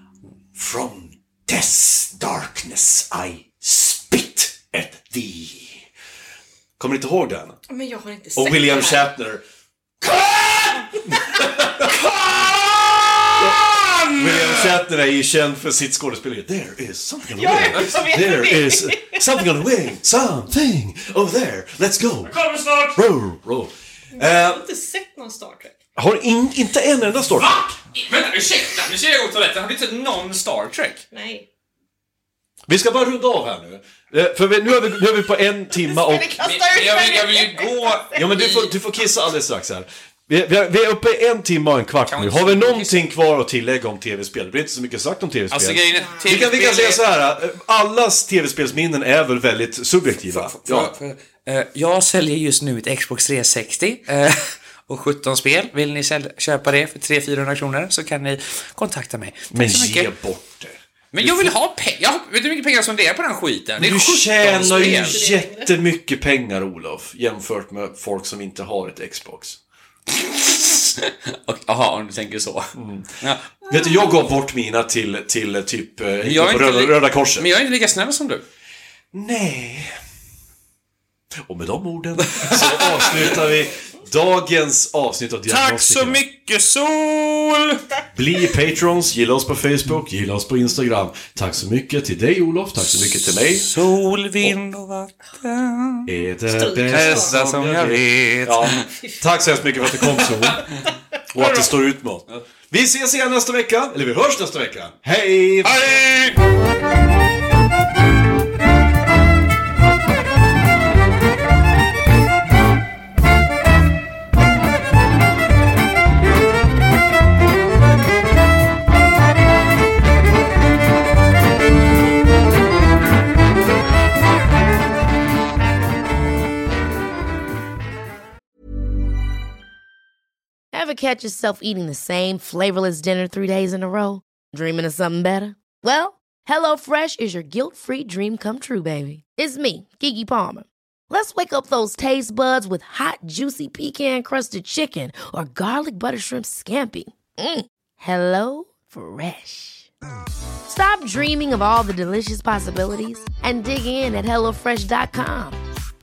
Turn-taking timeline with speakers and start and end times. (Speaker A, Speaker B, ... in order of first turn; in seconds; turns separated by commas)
Speaker A: 0.5-5.8, Speaker A: 6.8-7.6, Speaker B: 7.7-9.1, Speaker A: 8.3-9.4, Speaker A: 10.0-11.9, Speaker B: 11.1-11.4, Speaker C: 11.8-14.8, Speaker A: 13.4-22.3, Speaker B: 17.3-19.4, Speaker C: 22.2-23.0, Speaker A: 22.9-24.6, Speaker B: 24.1-25.7, Speaker A: 25.9-27.7, Speaker C: 27.4-31.0, Speaker B: 31.1-31.4, Speaker A: 32.7-36.4, Speaker B: 35.8-38.2, Speaker C: 36.4-38.7, Speaker A: 38.1-50.9, Speaker C: 42.1-43.1, Speaker C: 45.5-47.0, Speaker B: 45.9-46.4, Speaker C: 50.3-60.1, Speaker A: 59.5-61.5, Speaker C: 61.1-65.2, Speaker A: 63.8-69.6, Speaker B: 64.5-65.8, Speaker C: 70.1-73.4, Speaker A: 72.7-73.1, Speaker A: 73.7-77.5, Speaker B: 73.7-74.1, Speaker C: 76.2-78.4, Speaker A: 79.1-79.9, Speaker A: 81.5-86.2, Speaker C: 82.3-83.4, Speaker C: 85.5-87.8, Speaker A: 88.1-93.8, Speaker C: 92.9-96.1, Speaker A: 96.1-100.6, Speaker B: 96.5-97.3, Speaker C: 96.9-98.8, Speaker C: 100.0-100.6, Speaker A: 101.3-105.9, Speaker C: 101.3-101.7, Speaker C: 105.6-106.4, Speaker D: 130.7-149.9, Speaker D: 150.7-155.6